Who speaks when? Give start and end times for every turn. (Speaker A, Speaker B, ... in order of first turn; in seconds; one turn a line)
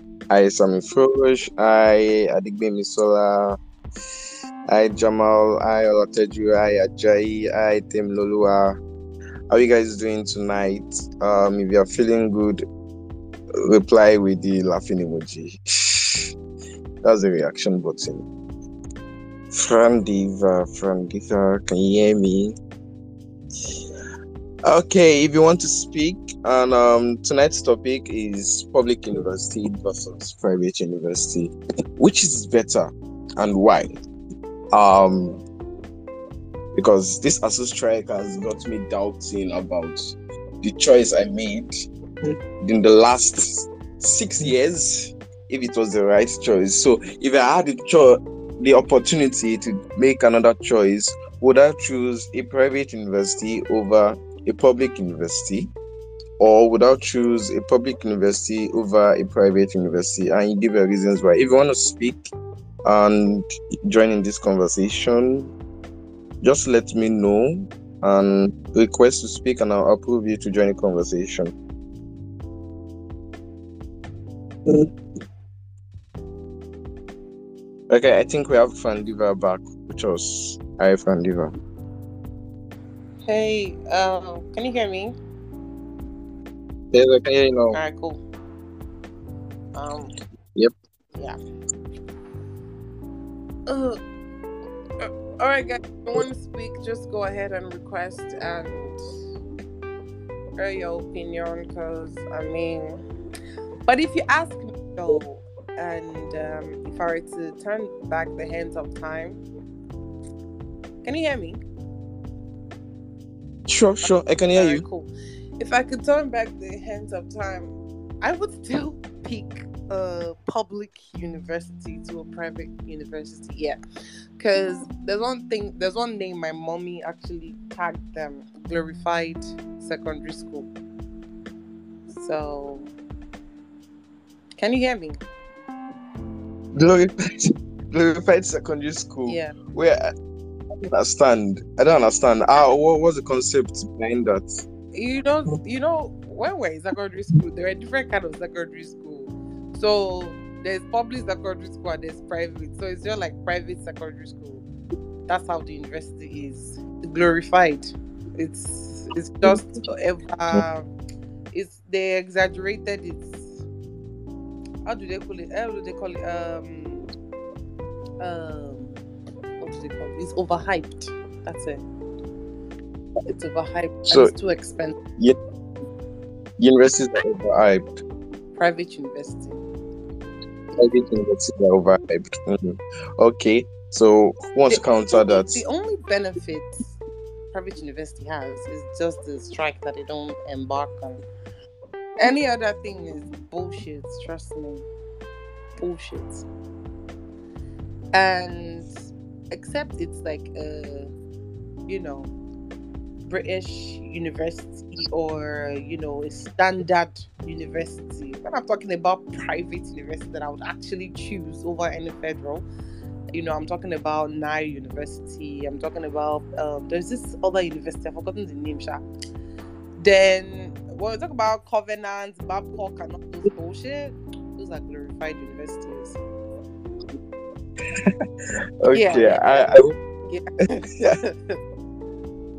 Speaker A: 0.3-3.6
Speaker A: 4.7-8.8
Speaker A: 9.5-12.6
Speaker A: 13.6-16.3
Speaker A: 17.0-18.2
Speaker A: 19.5-22.6
Speaker A: 24.6-34.0
Speaker A: 34.7-35.4
Speaker A: 36.7-41.9
Speaker A: 42.6-55.7
Speaker A: 56.4-62.3
Speaker A: 62.8-65.5
Speaker A: 66.4-71.5
Speaker A: 77.9-81.5
Speaker B: 83.2-85.2
Speaker A: 86.9-87.8
Speaker B: 87.7-88.2
Speaker B: 89.7-90.1
Speaker B: 93.7-94.0
Speaker B: 95.0-99.0
Speaker B: 100.6-103.0
Speaker B: 103.8-109.4
Speaker B: 111.0-111.6
Speaker A: 113.7-114.8
Speaker B: 114.0-123.8
Speaker B: 124.4-130.7
Speaker B: 132.1-132.9
Speaker B: 134.6-135.2
Speaker A: 136.7-140.1
Speaker B: 139.2-139.6
Speaker A: 140.8-144.6
Speaker B: 144.9-154.6
Speaker B: 155.3-160.9
Speaker B: 161.5-163.6
Speaker B: 164.8-167.1
Speaker B: 168.2-169.0
Speaker B: 169.6-171.8
Speaker B: 173.3-175.0
Speaker A: 174.1-174.3
Speaker A: 176.6-177.9
Speaker B: 178.6-179.6
Speaker A: 180.8-185.6
Speaker B: 184.7-187.0
Speaker B: 187.5-191.2
Speaker B: 192.2-194.8
Speaker B: 195.8-196.4
Speaker B: 198.1-198.9
Speaker B: 199.5-201.1
Speaker B: 201.9-202.3
Speaker B: 203.3-212.7
Speaker B: 213.3-219.0
Speaker B: 220.0-226.2
Speaker A: 228.8-230.0
Speaker B: 228.9-229.7
Speaker B: 231.3-231.6